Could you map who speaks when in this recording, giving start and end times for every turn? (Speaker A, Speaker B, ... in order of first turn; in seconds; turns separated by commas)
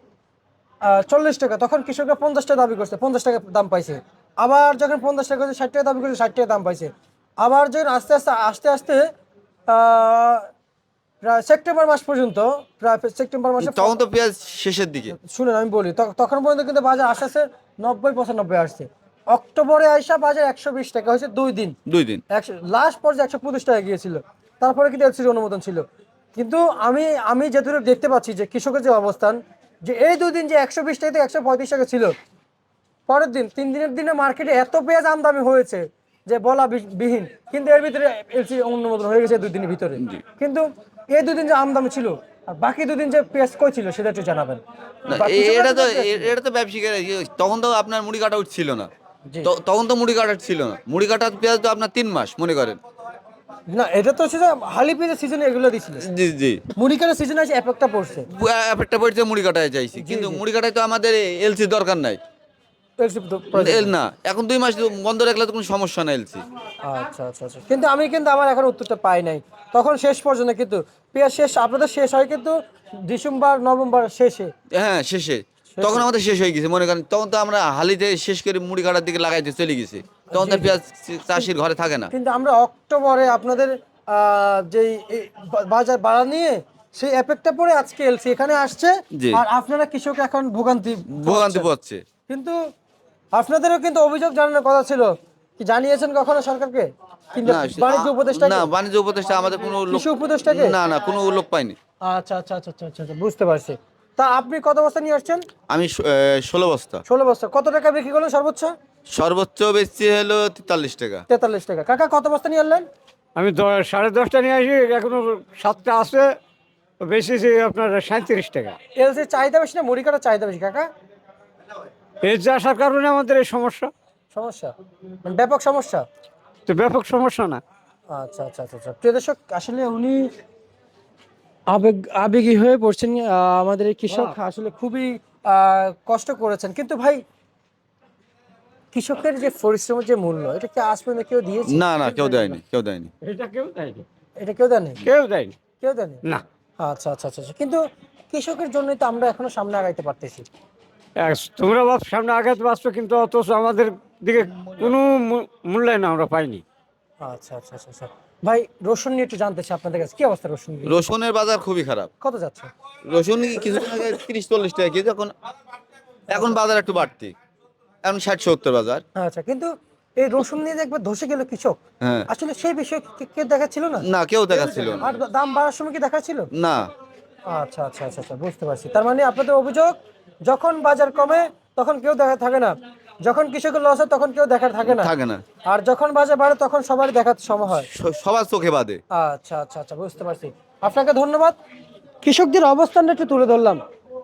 Speaker A: 0.8-9.1, Speaker A: 9.7-10.5, Speaker A: 11.2-13.9, Speaker B: 13.6-15.2, Speaker A: 15.1-21.8, Speaker B: 21.9-22.2, Speaker A: 22.3-25.8, Speaker A: 26.3-32.1, Speaker A: 33.1-44.6, Speaker B: 45.1-48.9, Speaker A: 45.1-46.3, Speaker B: 49.4-52.8, Speaker A: 53.7-56.0, Speaker B: 56.0-56.6, Speaker A: 56.8-58.3, Speaker B: 58.3-62.2, Speaker A: 59.9-60.4, Speaker A: 63.0-63.9, Speaker B: 63.5-66.4, Speaker A: 66.8-72.5, Speaker A: 73.0-74.5, Speaker B: 74.8-82.1, Speaker A: 75.7-76.0, Speaker A: 80.3-80.8, Speaker A: 82.1-91.7, Speaker B: 89.2-89.4, Speaker B: 91.1-92.0, Speaker A: 92.3-92.6, Speaker A: 93.3-98.7, Speaker B: 97.4-101.8, Speaker A: 99.8-100.8, Speaker A: 102.0-105.4, Speaker B: 105.7-107.0, Speaker A: 107.1-108.7, Speaker B: 109.1-111.2, Speaker A: 111.3-112.8, Speaker C: 113.3-116.3, Speaker C: 117.0-118.8, Speaker A: 119.0-120.9, Speaker C: 122.2-123.9, Speaker A: 124.3-126.0, Speaker C: 126.7-127.6, Speaker A: 128.1-130.3, Speaker A: 131.7-137.2, Speaker C: 134.1-134.3, Speaker A: 138.9-142.4, Speaker B: 141.7-143.1, Speaker C: 143.2-144.1, Speaker A: 144.4-145.0, Speaker C: 145.0-145.6, Speaker A: 145.8-146.2, Speaker A: 146.8-147.8, Speaker A: 148.3-150.4, Speaker C: 151.2-156.6, Speaker A: 157.2-161.0, Speaker B: 160.8-162.1, Speaker A: 162.2-162.7, Speaker B: 163.1-165.3, Speaker A: 166.3-166.6, Speaker B: 166.3-167.3, Speaker B: 168.0-169.0, Speaker A: 169.2-176.5, Speaker B: 172.0-172.3, Speaker B: 174.0-175.2, Speaker B: 176.5-176.9, Speaker A: 177.5-179.9, Speaker A: 180.4-185.1, Speaker B: 184.8-185.4, Speaker A: 185.7-187.9, Speaker B: 187.7-189.0, Speaker A: 189.1-191.6, Speaker A: 192.2-193.8